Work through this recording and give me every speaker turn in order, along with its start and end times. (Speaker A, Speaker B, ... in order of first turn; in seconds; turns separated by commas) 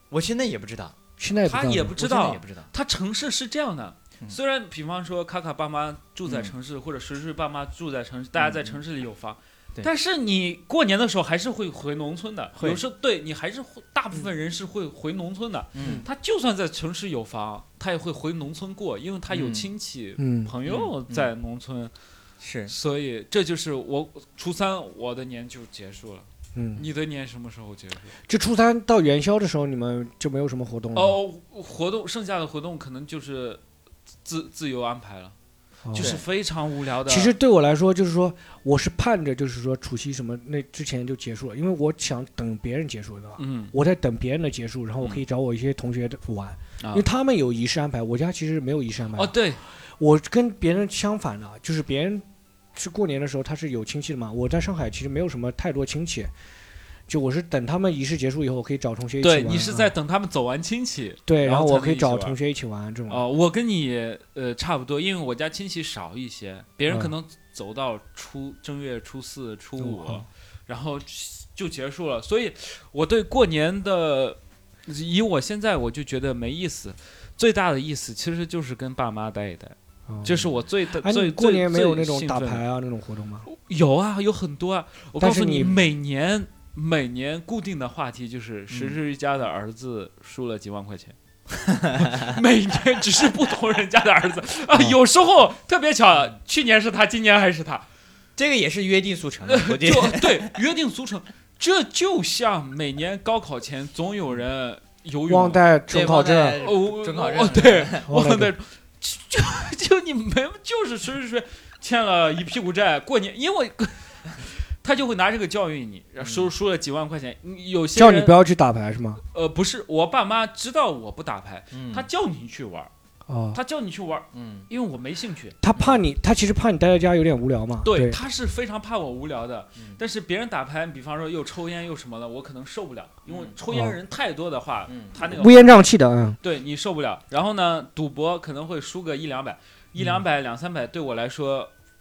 Speaker A: 0.1-1.0, Speaker B: 1.2-2.0, Speaker C: 1.4-21.9, Speaker A: 2.0-2.7, Speaker A: 6.3-6.5, Speaker A: 8.4-8.8, Speaker A: 12.6-12.8, Speaker A: 15.8-16.1, Speaker B: 15.8-16.1, Speaker A: 19.3-19.7, Speaker B: 20.2-20.5, Speaker A: 20.7-21.3, Speaker A: 22.4-22.7, Speaker C: 22.7-28.1, Speaker B: 26.6-26.9, Speaker B: 28.3-31.2, Speaker C: 30.9-33.6, Speaker C: 34.2-35.4, Speaker B: 35.9-36.2, Speaker C: 35.9-37.3, Speaker A: 36.0-36.2, Speaker B: 37.1-56.3, Speaker C: 43.4-43.7, Speaker C: 46.8-47.0, Speaker C: 49.1-49.6, Speaker B: 57.1-59.9, Speaker C: 59.2-62.4, Speaker B: 61.3-63.2, Speaker C: 63.1-82.6, Speaker B: 69.8-70.2, Speaker B: 80.1-80.5, Speaker B: 81.0-83.5, Speaker C: 83.5-91.2, Speaker B: 85.2-85.8, Speaker A: 88.7-89.0, Speaker A: 91.6-92.3, Speaker C: 92.0-97.9, Speaker A: 98.4-100.5, Speaker C: 99.5-105.6, Speaker B: 105.3-106.6, Speaker A: 105.9-108.1, Speaker C: 106.6-118.4, Speaker B: 108.1-108.5, Speaker A: 116.2-116.5, Speaker B: 118.0-119.2, Speaker C: 119.3-122.9, Speaker A: 121.7-122.1, Speaker B: 123.3-123.6, Speaker C: 123.5-125.6, Speaker A: 124.3-124.7, Speaker B: 125.6-128.2, Speaker A: 125.7-126.0, Speaker C: 127.8-135.8, Speaker A: 133.3-133.5, Speaker B: 133.7-134.0, Speaker A: 134.9-135.2, Speaker B: 135.3-136.4, Speaker C: 136.4-141.7